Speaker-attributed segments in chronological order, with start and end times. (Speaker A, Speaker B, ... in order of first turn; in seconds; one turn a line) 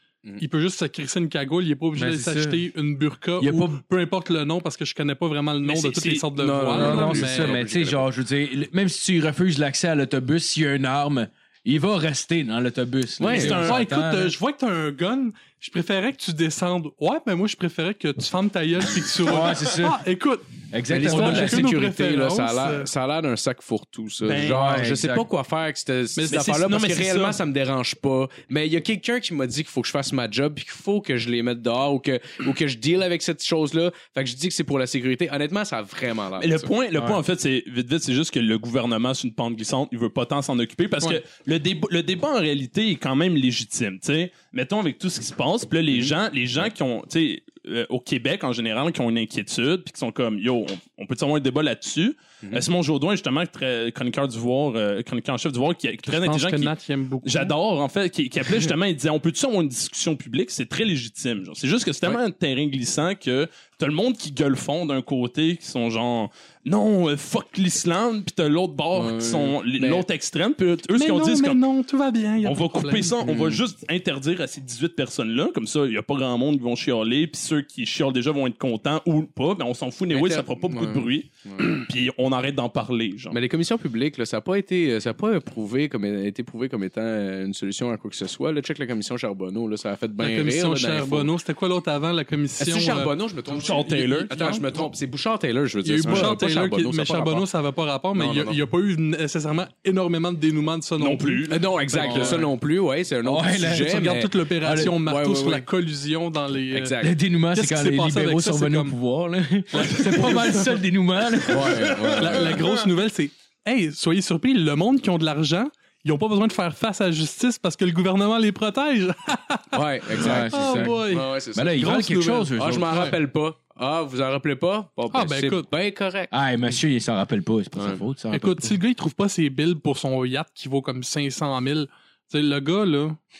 Speaker A: 0.4-7.6
Speaker B: 1.9-2.6
Speaker B: 3.4-3.8
Speaker C: 5.6-6.3
Speaker D: 6.3-8.1
Speaker B: 6.8-14.3
Speaker D: 13.2-13.6
Speaker C: 13.3-13.8
Speaker A: 13.4-22.9
Speaker B: 19.2-20.0
Speaker B: 20.7-21.7
Speaker D: 20.9-36.7
Speaker C: 24.2-24.7
Speaker B: 24.5-25.3
Speaker C: 26.3-27.4
Speaker C: 36.4-71.6
Speaker A: 56.0-57.5
Speaker D: 68.9-70.0
Speaker A: 70.9-73.2
Speaker C: 72.4-83.4
Speaker D: 73.2-73.6
Speaker D: 80.1-81.8
Speaker D: 83.3-91.3
Speaker A: 90.2-93.1
Speaker D: 92.6-97.5
Speaker C: 93.5-94.8
Speaker A: 95.8-102.5
Speaker C: 96.0-96.3
Speaker D: 98.1-98.6
Speaker C: 101.0-102.3
Speaker D: 101.5-105.7
Speaker B: 102.0-102.4
Speaker B: 103.2-104.1
Speaker A: 103.7-106.9
Speaker B: 104.6-105.0
Speaker D: 106.7-107.1
Speaker B: 107.0-112.6
Speaker A: 107.5-109.0
Speaker A: 109.7-110.8
Speaker D: 111.5-112.6
Speaker A: 112.2-123.1
Speaker D: 119.7-122.0
Speaker B: 120.2-122.9
Speaker D: 122.5-126.3
Speaker A: 125.1-125.7
Speaker B: 126.3-128.7
Speaker A: 128.3-133.2